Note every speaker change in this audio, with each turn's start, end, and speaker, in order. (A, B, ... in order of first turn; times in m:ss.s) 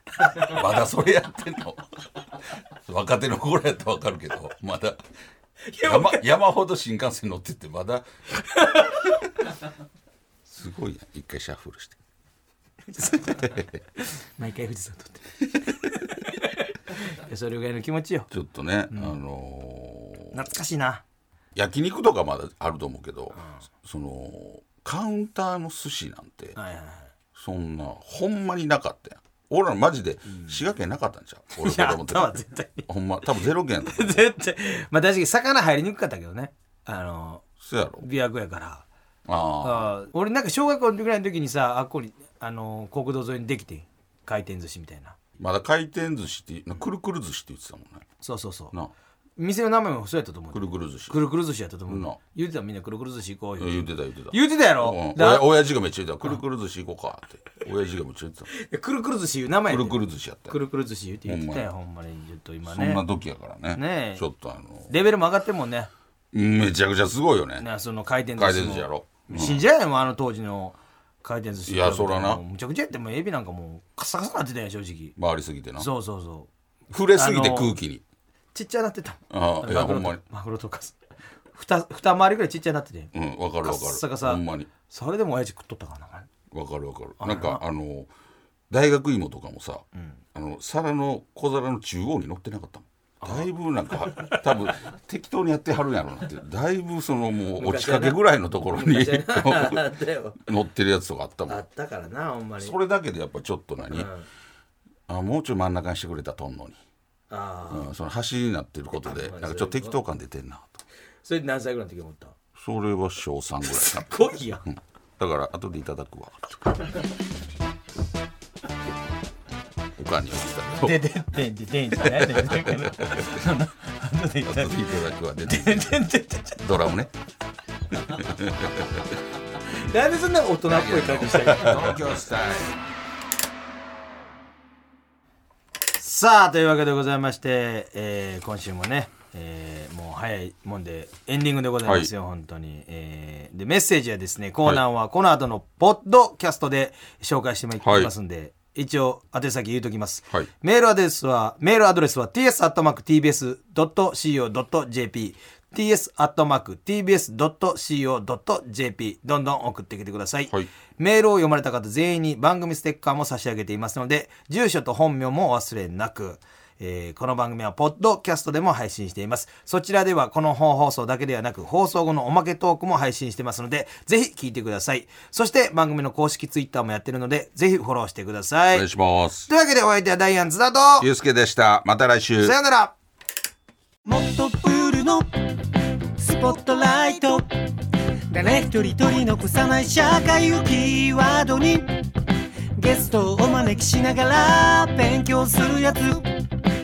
0:00.2-0:01.8 A
0:02.8-0:05.0 A
0:05.6-0:06.2 B
0:05.8-0:08.0 A
0:08.5-0:08.9 B
0:10.5-0:12.0 A
0:12.9-0:18.3 B
0:13.3-0:13.8 A
0:18.3-0:20.4 A
0:18.9-0:19.2 B
0:20.3-0:21.0 B
0:21.5-0:26.6 A
0:26.6-0:27.1 B
0:27.3-0:34.2 A
0:30.3-0:30.6 B
0:31.6-0:32.9 B
0:33.8-0:37.4 B
0:37.6-0:38.0 A
0:38.0-0:38.8 B
0:39.3-0:39.9 A
0:39.6-0:45.2 B
0:45.4-0:48.0 A
0:48.2-0:48.7 B
0:49.4-0:55.5 B
0:50.5-0:51.2 A
0:51.9-0:52.2 A
0:53.6-0:58.5 A
0:58.5-1:03.0 B
0:59.7-1:00.6 A
1:01.2-1:01.7 A
1:02.6-1:04.9 A
1:03.7-1:04.2 B
1:04.9-1:05.9 B
1:06.3-1:07.7 A
1:07.6-1:15.1 B
1:08.3-1:09.6 A
1:11.6-1:12.4 A
1:15.2-1:15.9 A
1:15.8-1:16.5 B
1:16.9-1:18.0 A
1:17.1-1:17.8 B
1:18.5-1:21.0 B
1:19.3-1:20.2 A
1:21.5-1:26.3 B
1:23.1-1:24.7 A
1:26.5-1:28.1 A
1:27.2-1:27.6 B
1:28.7-1:41.6 A
1:29.9-1:30.2 B
1:33.2-1:33.5 B
1:34.1-1:34.4 B
1:37.6-1:40.4 B
1:41.5-1:42.7 B
1:42.6-1:44.1 A
1:43.9-1:44.3 B
1:45.1-1:46.8 A
1:47.3-1:47.9 B
1:47.7-1:50.8 A
1:49.0-1:50.0 B
1:51.2-1:52.3 B
1:52.6-1:56.6 A
1:53.7-1:54.6 B
2:00.0-2:01.1 A
2:00.8-2:04.9 B
2:02.0-2:03.4 A
2:04.4-2:07.1 A
2:05.4-2:06.6 B
2:08.0-2:09.1 A
2:09.7-2:12.0 B
2:10.7-2:12.8 A
2:15.9-2:58.9 B
2:21.8-2:22.1 A
2:27.8-2:28.1 A
2:58.7-2:59.5 A
2:59.5-3:01.1 B
3:01.0-3:02.6 A
3:02.4-3:02.9 B
3:04.0-3:05.3 C
3:06.2-3:07.5 C
3:08.3-3:11.9 C
3:12.8-3:16.2 C